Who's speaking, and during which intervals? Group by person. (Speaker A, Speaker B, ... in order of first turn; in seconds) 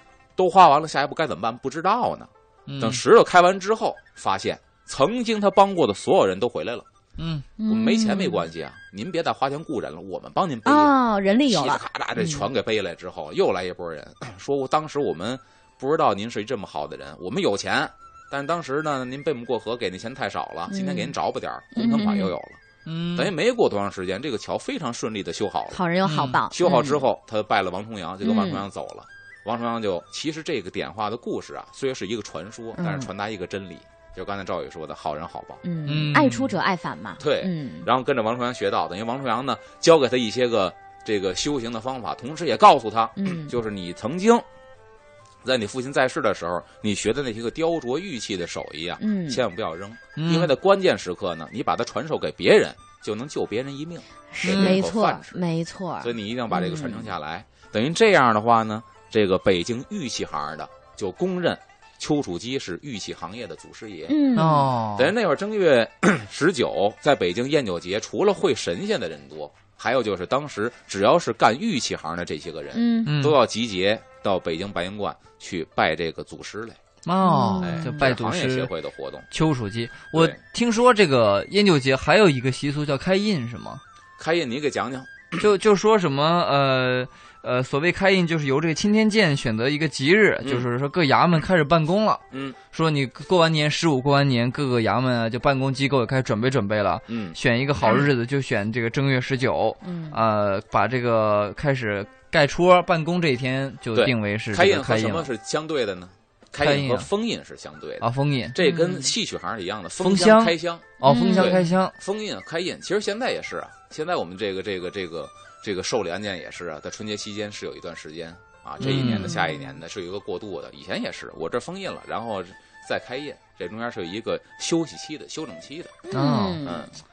Speaker A: 0.4-6.9, 7.7-10.9, 11.5-22.6, 23.1-25.8, 26.5-35.6, 37.2-44.5, 45.4-55.4, 56.0-64.2, 65.0-76.8, 77.6-79.3, 84.2-85.5, 90.4-90.7, 92.3-92.6, 97.1-97.4, 103.9-126.0, 126.6-126.9
Speaker B: 2.7-3.0, 7.2-7.5, 22.9-23.3, 26.1-26.4, 35.9-36.5, 50.2-50.5, 54.4-54.8, 64.4-65.1, 73.1-73.4, 77.0-78.7, 79.3-83.8, 85.4-105.3, 106.6-107.1, 108.0-108.6, 110.0-111.9, 118.8-119.3, 126.1-126.7
Speaker C: 7.6-8.5, 10.7-12.4, 20.7-21.1, 21.7-22.3, 25.7-27.1, 28.2-28.6, 32.8-33.1, 35.6-37.9, 43.2-43.5, 49.0-49.4, 54.3-57.1, 64.1-64.7, 72.7-73.1, 77.2-78.1, 99.8-100.2, 108.6-109.1, 111.0-111.6, 118.9-119.8, 126.1-126.9